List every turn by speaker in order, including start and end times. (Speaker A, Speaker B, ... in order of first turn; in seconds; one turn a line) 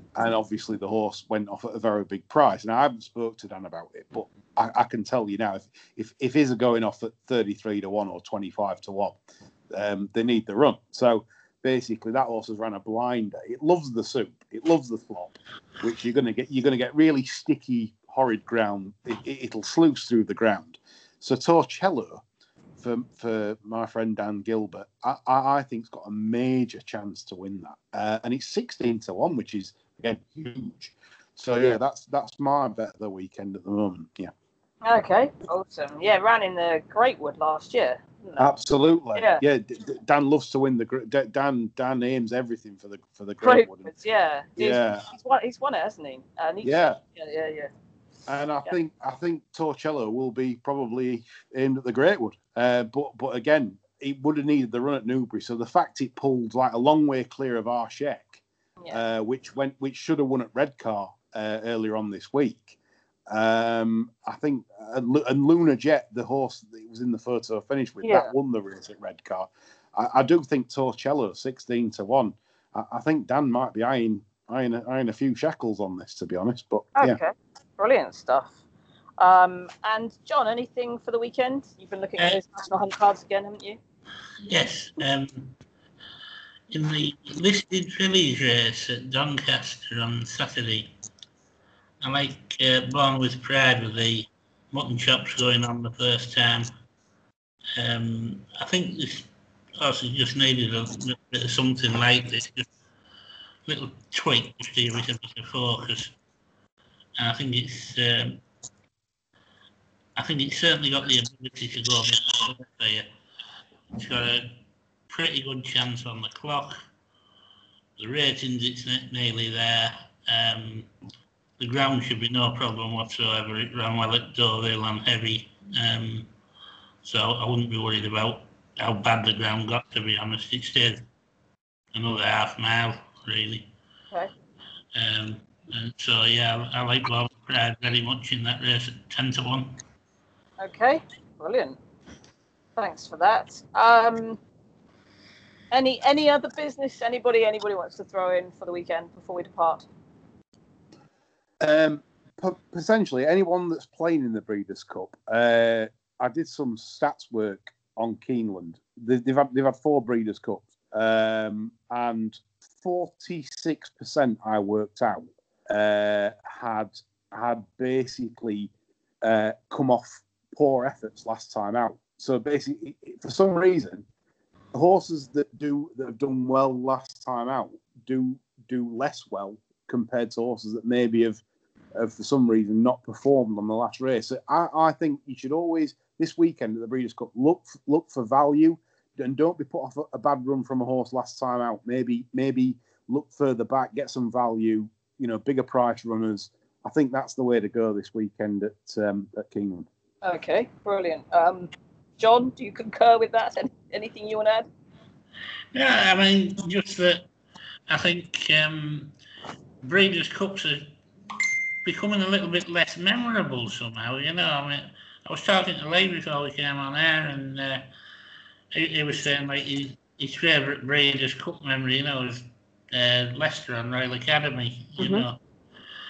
Speaker A: 0.1-9.2
Speaker A: 9.7-22.2
Speaker A: 22.8-34.3
Speaker B: 34.8-38.5
Speaker A: 38.4-43.9
Speaker B: 39.1-39.4
Speaker B: 43.4-47.7
Speaker A: 44.6-45.0
Speaker A: 46.6-47.0
Speaker A: 48.3-62.8
Speaker A: 63.3-77.2
Speaker B: 68.0-68.3
Speaker B: 77.0-78.6
Speaker B: 79.2-83.8
Speaker C: 84.5-85.6
Speaker C: 86.7-90.9
Speaker C: 92.0-96.7
Speaker C: 97.8-102.7
Speaker C: 103.7-106.1
Speaker C: 107.2-108.4
Speaker C: 110.2-113.1
Speaker C: 113.9-114.5
Speaker C: 115.1-116.8
Speaker C: 118.0-120.9
Speaker C: 121.6-126.3
Speaker C: 127.0-131.0
Speaker C: 131.9-133.7
Speaker C: 134.9-139.7
Speaker B: 140.6-141.8
Speaker B: 142.8-144.4
Speaker B: 145.7-149.8
Speaker A: 151.6-168.7
Speaker A: 169.2-174.1
Speaker A: 174.7-181.4
Speaker A: 181.9-199.9
Speaker B: 200.2-204.7
Speaker C: 205.7-207.3
Speaker C: 207.9-209.1
Speaker C: 209.8-210.9
Speaker C: 211.8-217.9
Speaker C: 218.7-225.4
Speaker B: 225.0-225.2